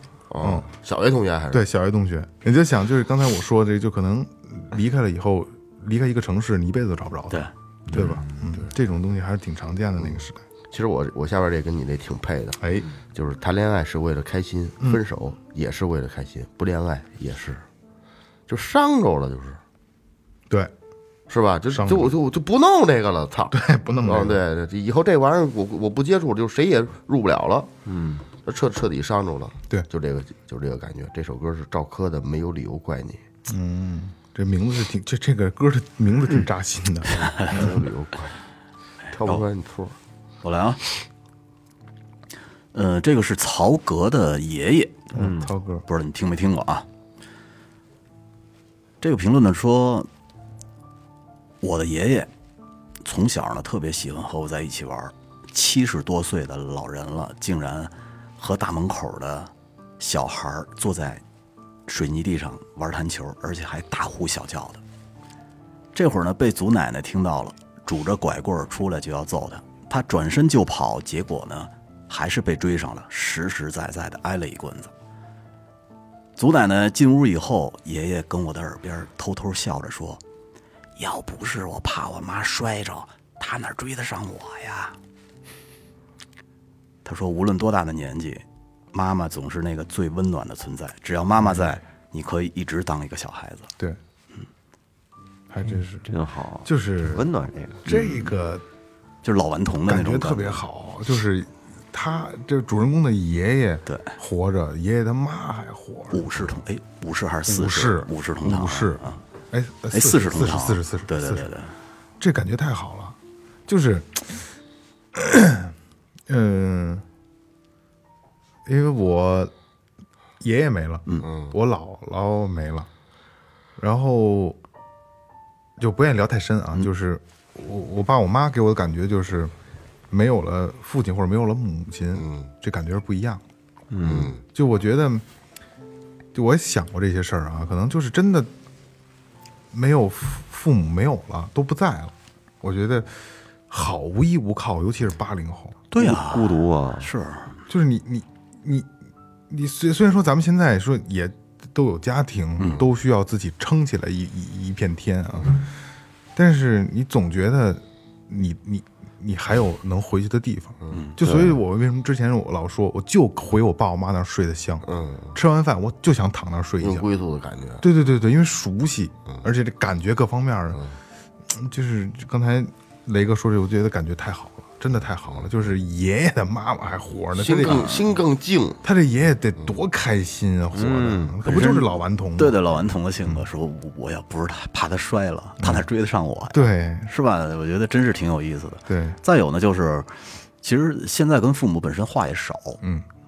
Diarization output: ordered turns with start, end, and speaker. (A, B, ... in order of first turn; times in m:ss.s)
0:00.3-0:01.6 A
0:00.4-0:00.7 B
0:01.5-0:10.4 B
0:07.9-0:08.7 A
0:10.0-0:12.6 A
0:12.6-0:12.9 B
0:13.1-0:17.6 A
0:18.5-0:19.6 A
0:21.3-0:27.7 A
0:21.7-0:22.1 B
0:23.5-0:24.4 B
0:27.9-0:28.2 C
0:28.4-0:33.2 A
0:33.5-0:37.8 B
0:37.5-0:38.4 A
0:39.1-0:40.0 A
0:40.4-0:40.8 D
0:42.7-0:45.1 D
0:45.1-0:45.5 C
0:45.1-0:45.8 B
0:45.9-0:46.9 D
0:49.0-0:50.1 D
0:51.6-0:52.3 D
0:53.0-1:01.2 D
1:01.9-1:04.8 D
1:05.9-1:14.9 D
1:16.4-1:20.2 D
1:21.0-1:25.0 D
1:27.0-1:33.7 D
1:31.5-1:31.8 B
1:35.5-1:36.1 B
1:36.0-1:37.8 C
1:36.6-1:37.3 B
1:37.8-1:38.6 B
1:37.9-1:38.3 D
1:39.2-1:40.6 D
1:39.9-1:46.6 B
1:43.9-1:44.1 D
1:46.1-1:49.2 D
1:47.5-1:51.5 B
1:49.9-1:51.7 D
1:52.2-1:54.5 B
1:55.1-1:55.7 B
1:56.3-1:57.0 B
1:58.7-1:59.5 B
2:00.4-2:02.9 B
2:01.2-2:01.6 A
2:03.8-2:04.6 B
2:05.8-2:09.5 B
2:10.1-2:13.4 B
2:12.2-2:12.5 A
2:13.9-2:14.3 C
2:14.0-2:14.4 A
2:14.5-2:15.2 B
2:16.4-2:18.5 B
2:19.7-2:23.1 B
2:23.7-2:25.8 B
2:25.9-2:27.6 D
2:26.0-2:27.1 C
2:27.7-2:28.9 B
2:29.5-2:35.7 B
2:32.6-2:32.8 D
2:36.4-2:47.1 B
2:40.9-2:41.2 D
2:41.2-2:41.6 C
2:44.8-2:45.3 A
2:46.8-2:47.8 A
2:47.8-2:50.8 B
2:51.5-2:58.0 B
2:57.3-2:58.8 A
2:57.7-2:58.1 D
2:58.8-3:02.6 B
3:00.7-3:01.4 C
3:01.4-3:12.8 D
3:05.6-3:05.9 B
3:06.5-3:07.1 B
3:08.9-3:09.2 B